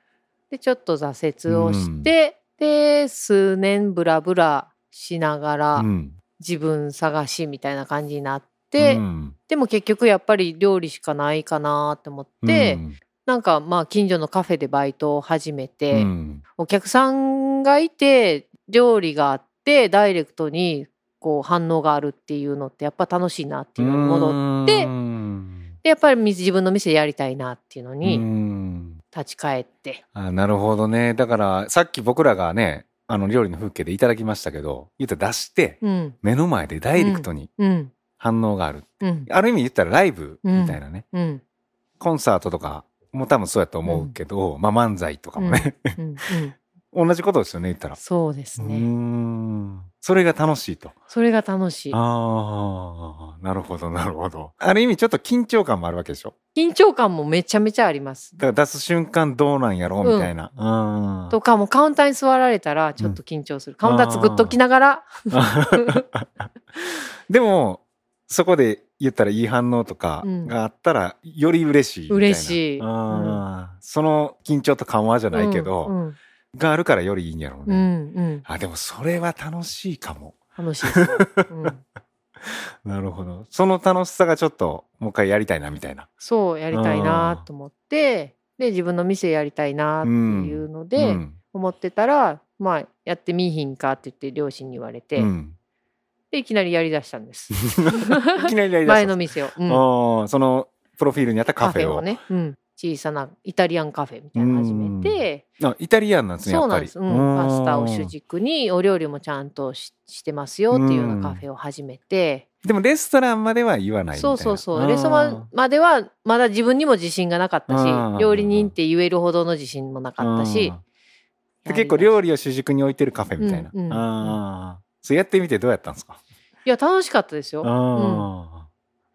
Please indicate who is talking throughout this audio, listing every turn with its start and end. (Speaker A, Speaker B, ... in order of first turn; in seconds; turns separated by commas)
Speaker A: 0.5-5.9, Speaker B: 1.5-2.1, Speaker B: 5.8-6.1, Speaker A: 6.4-24.9, Speaker B: 8.8-9.3, Speaker B: 12.4-12.9, Speaker B: 15.9-16.4, Speaker B: 23.8-25.6, Speaker A: 25.8-28.2, Speaker B: 28.0-29.0, Speaker A: 29.1-30.0, Speaker B: 30.1-37.5, Speaker A: 35.8-36.1, Speaker A: 37.0-37.9, Speaker B: 38.2-41.0, Speaker A: 39.0-39.3, Speaker A: 40.4-41.4, Speaker B: 42.0-46.0, Speaker A: 43.9-44.1, Speaker A: 45.4-46.5, Speaker B: 46.9-48.0, Speaker A: 48.0-48.9, Speaker B: 48.6-51.0, Speaker A: 51.1-52.0, Speaker B: 51.9-56.3, Speaker A: 56.5-58.3, Speaker B: 58.4-61.3, Speaker A: 60.0-60.3, Speaker A: 61.3-66.0, Speaker B: 63.8-64.5, Speaker B: 65.3-66.3, Speaker B: 67.3-75.9, Speaker A: 70.2-70.5, Speaker A: 72.1-73.4, Speaker A: 75.3-76.2, Speaker B: 76.5-77.9, Speaker A: 77.7-78.4, Speaker B: 78.4-81.5, Speaker A: 80.6-81.8, Speaker B: 82.4-86.1, Speaker A: 86.2-95.3, Speaker B: 86.7-87.4, Speaker B: 90.0-91.3, Speaker B: 95.2-95.5, Speaker A: 96.3-99.8, Speaker B: 97.7-102.1, Speaker A: 101.6-105.4, Speaker B: 104.3-108.1, Speaker A: 106.4-112.4, Speaker B: 110.7-111.4, Speaker B: 112.6-115.5, Speaker A: 114.1-120.7, Speaker B: 117.7-118.7, Speaker B: 120.2-120.8, Speaker A: 121.6-122.1, Speaker B: 121.7-126.2, Speaker A: 123.4-124.4, Speaker A: 126.6-128.3, Speaker B: 127.6-128.7